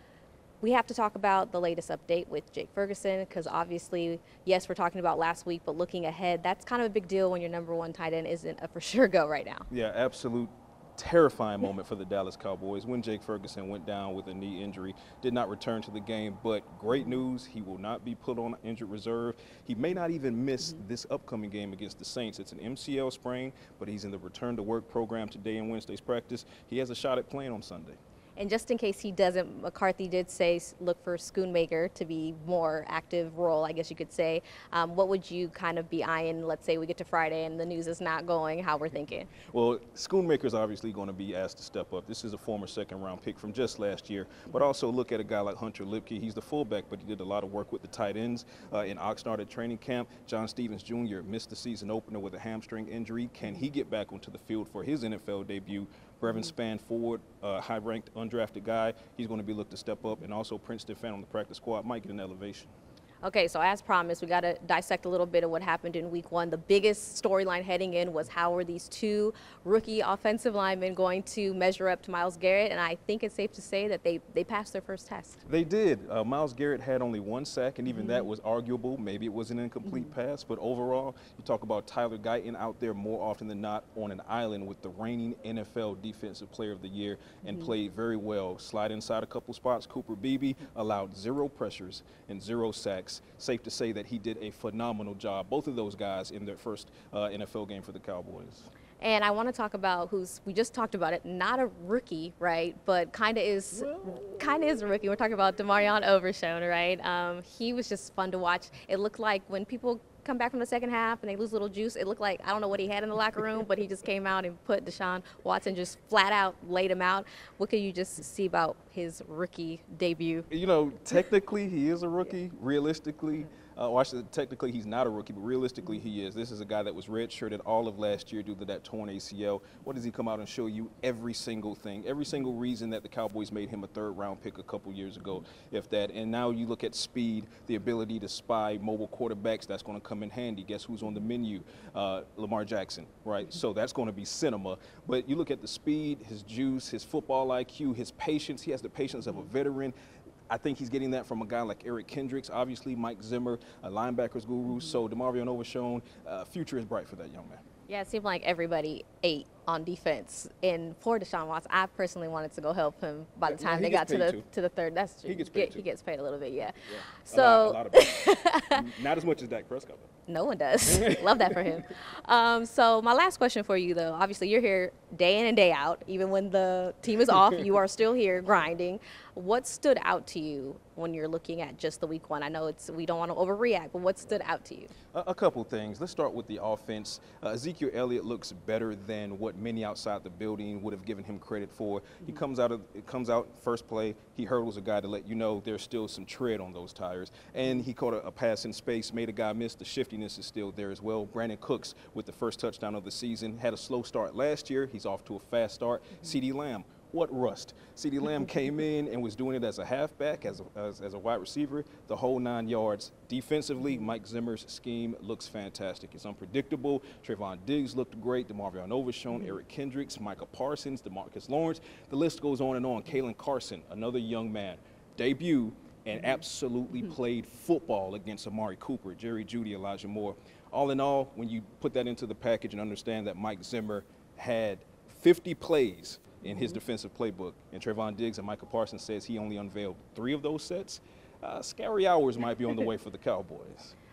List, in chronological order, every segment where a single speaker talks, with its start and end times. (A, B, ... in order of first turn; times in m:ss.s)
0:00.6-0:09.7 A
0:09.7-0:28.0 B
0:28.4-0:39.3 A
0:39.4-1:02.7 B
1:03.2-1:15.4 A
1:15.4-1:38.7 B
1:17.9-1:18.3 A
1:19.8-1:20.1 A
1:39.0-2:00.5 A
1:43.8-1:44.4 B
2:00.5-2:29.9 B
2:30.5-2:37.6 B
2:34.7-2:34.9 A
2:37.9-2:48.8 A
2:43.4-2:44.4 B
2:45.2-2:45.8 B
2:46.8-2:50.1 B
2:50.3-3:04.9 A
2:50.9-2:51.6 B
3:05.1-4:03.9 B
3:56.4-3:56.8 A